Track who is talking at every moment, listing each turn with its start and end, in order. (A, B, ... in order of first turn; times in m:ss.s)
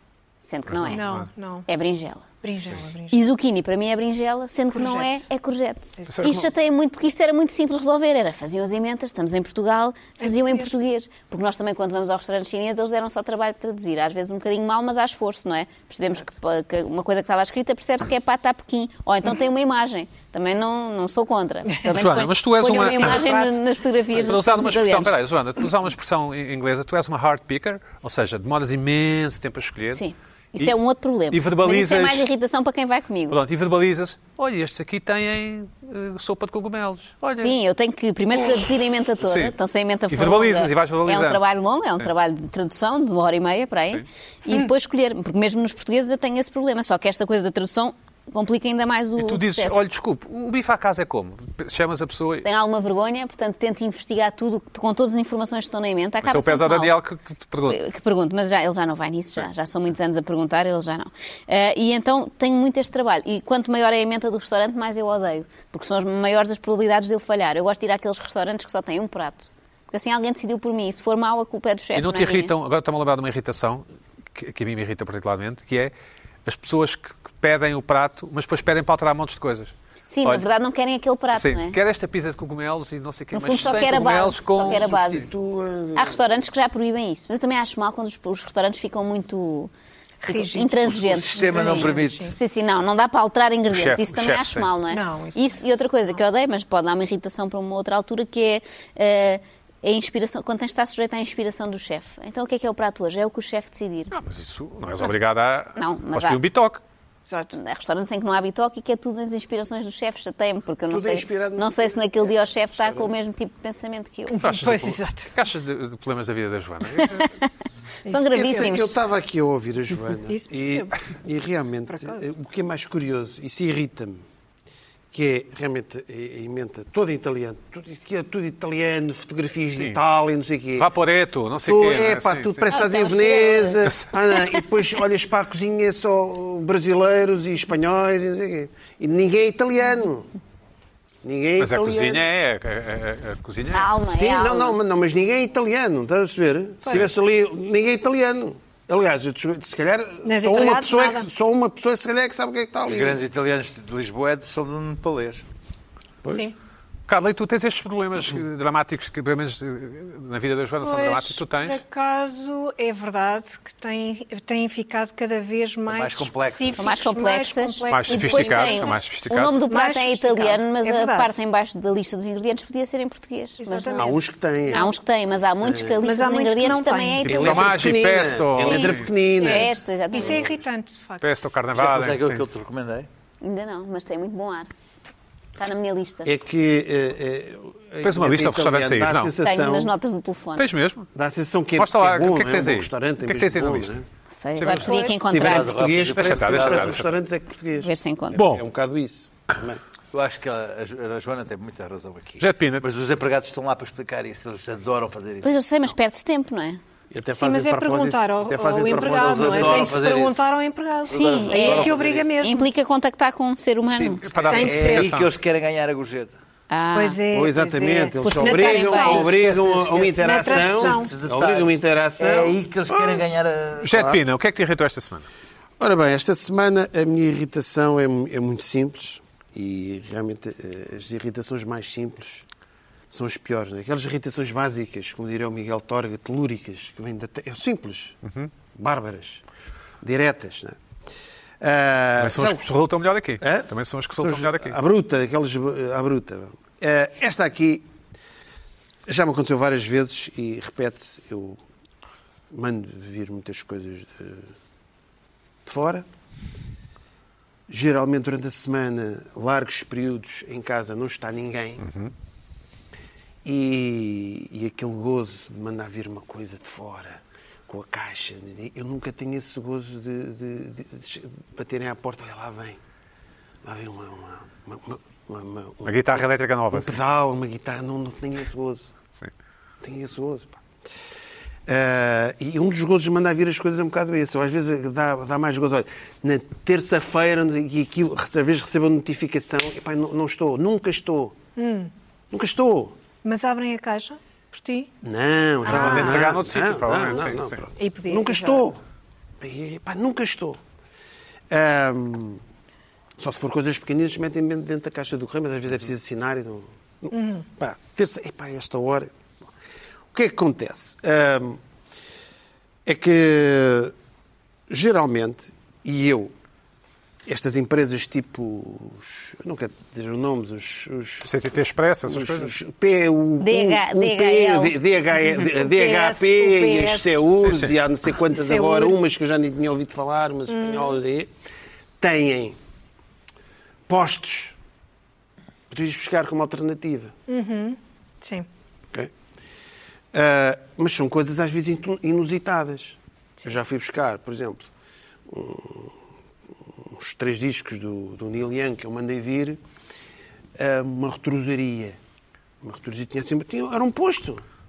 0:00.4-0:01.0 A
0:00.7-0:01.3 B
0:00.9-0:01.7 C
0:01.7-0:02.3 A
0:02.4-0:03.2 C
0:03.1-0:25.2 A
0:04.7-0:05.2 C
0:06.1-0:06.5 B
0:10.2-0:10.7 C
0:21.9-0:23.3 B
0:22.8-0:23.6 C
0:24.2-0:30.0 B
0:29.9-0:33.4 A
0:31.3-0:32.3 B
0:33.3-0:37.6 B
0:37.4-0:49.8 A
0:39.2-0:39.5 B
0:40.1-0:41.4 B
0:49.2-0:52.5 B
0:52.4-0:57.0 A
0:56.2-0:57.8 B
0:57.7-1:12.5 A
1:11.9-1:15.9 B
1:16.4-1:20.4 B
1:20.1-1:21.8 A
1:21.3-1:25.3 B
1:23.3-1:25.3 A
1:24.6-1:26.3 D
1:25.9-1:29.7 A
1:30.2-1:32.4 C
1:30.2-1:44.1 A
1:30.8-1:32.3 E
1:33.7-1:34.7 B
1:34.9-1:35.6 C
1:44.1-1:46.8 B
1:45.8-1:46.4 A
1:47.3-1:47.6 C
1:47.5-1:54.4 A
1:50.9-1:52.1 D
1:52.7-1:53.1 D
1:54.3-1:55.3 C
1:54.4-1:57.3 B
1:57.0-1:57.3 A
1:58.0-1:58.8 C
1:58.1-1:59.0 A
1:58.3-2:04.2 D
2:00.3-2:01.0 C
2:01.9-2:02.3 C
2:05.1-2:10.9 D
2:10.8-2:12.7 B
2:11.6-2:20.3 D
2:12.7-2:14.6 A
2:21.2-2:22.2 D
2:21.6-2:23.9 B
2:23.7-2:24.8 A
2:24.0-2:33.2 D
2:30.2-2:31.3 C
2:32.9-2:35.4 E
2:36.2-2:36.5 D
2:36.3-2:36.5 C
2:37.1-2:41.8 B
2:40.8-2:49.0 C
2:45.9-2:46.9 E
2:46.8-2:54.2 A
2:47.9-2:49.5 B
2:49.7-2:51.4 C
2:53.6-2:54.1 C
2:54.0-2:54.9 D
2:54.7-2:57.7 A
2:55.6-2:56.0 D
2:56.0-2:57.3 C
2:57.2-2:59.1 B
2:57.2-3:00.4 D
2:58.6-3:00.5 A
2:59.4-3:01.2 C
3:01.2-3:02.4 B
3:01.7-3:03.1 E
3:03.4-3:04.7 A
3:05.6-3:06.3 A
3:06.2-3:09.9 D
3:08.0-3:09.3 B
3:09.4-3:10.7 A
3:10.6-3:11.1 B
3:11.1-3:14.0 D
3:11.8-3:14.0 B
3:14.3-3:15.8 A
3:14.6-3:15.1 B
3:14.7-3:15.2 C
3:15.3-3:17.0 E
3:15.3-3:19.8 D
3:16.0-3:17.1 B
3:17.8-3:18.4 A
3:18.3-3:18.6 B
3:20.1-3:25.5 E
3:22.4-3:22.8 B
3:25.4-3:26.8 A
3:27.1-3:30.0 D
3:27.3-3:32.7 C
3:28.9-3:30.4 E
3:31.1-3:32.3 E
3:31.1-3:34.3 A
3:33.9-3:36.4 E
3:34.2-3:35.3 B
3:34.5-3:35.1 C
3:36.7-3:37.2 A
3:36.9-3:39.3 C
3:37.3-3:43.3 D
3:38.2-3:39.3 A
3:39.1-3:44.0 E
3:40.2-3:41.1 C
3:43.8-3:45.2 B
3:43.9-3:44.2 D
3:45.8-3:52.4 D
3:53.1-3:58.2 D
3:58.2-3:58.5 B
3:58.7-3:59.4 D
4:00.0-4:00.8 D
4:01.6-4:02.6 D
4:02.2-4:04.8 B
4:03.4-4:07.9 D
4:09.1-4:11.6 D
4:12.5-4:14.5 D
4:15.6-4:16.0 D
4:17.7-4:21.8 D
4:21.8-4:22.1 B
4:23.4-4:32.8 D
4:33.6-4:38.9 D
4:35.8-4:37.0 B
4:39.8-4:40.6 D
4:41.7-4:51.4 D
4:51.6-4:51.9 C
4:52.3-4:53.0 D
4:53.2-4:54.9 C
4:55.0-4:58.8 D
4:55.6-4:56.2 C
4:55.6-4:57.6 B
4:57.8-4:58.6 C
4:59.4-5:00.6 D
5:01.5-5:02.4 D
5:03.2-5:09.1 D
5:07.1-5:07.4 C
5:10.1-5:11.6 D
5:12.8-5:13.9 D
5:14.7-5:16.3 D
5:17.2-5:21.3 D
5:21.2-5:22.5 B
5:22.1-5:31.3 D
5:23.4-5:24.8 A
5:25.2-5:27.2 C
5:27.4-5:27.7 B
5:28.3-5:29.0 C
5:30.5-5:30.9 C
5:32.0-5:32.6 D
5:33.9-5:34.6 D
5:35.7-5:37.1 D
5:37.3-5:38.5 C
5:40.1-5:44.6 D
5:45.3-5:45.9 D
5:46.8-5:49.6 D
5:50.6-5:52.0 D
5:52.6-5:54.4 D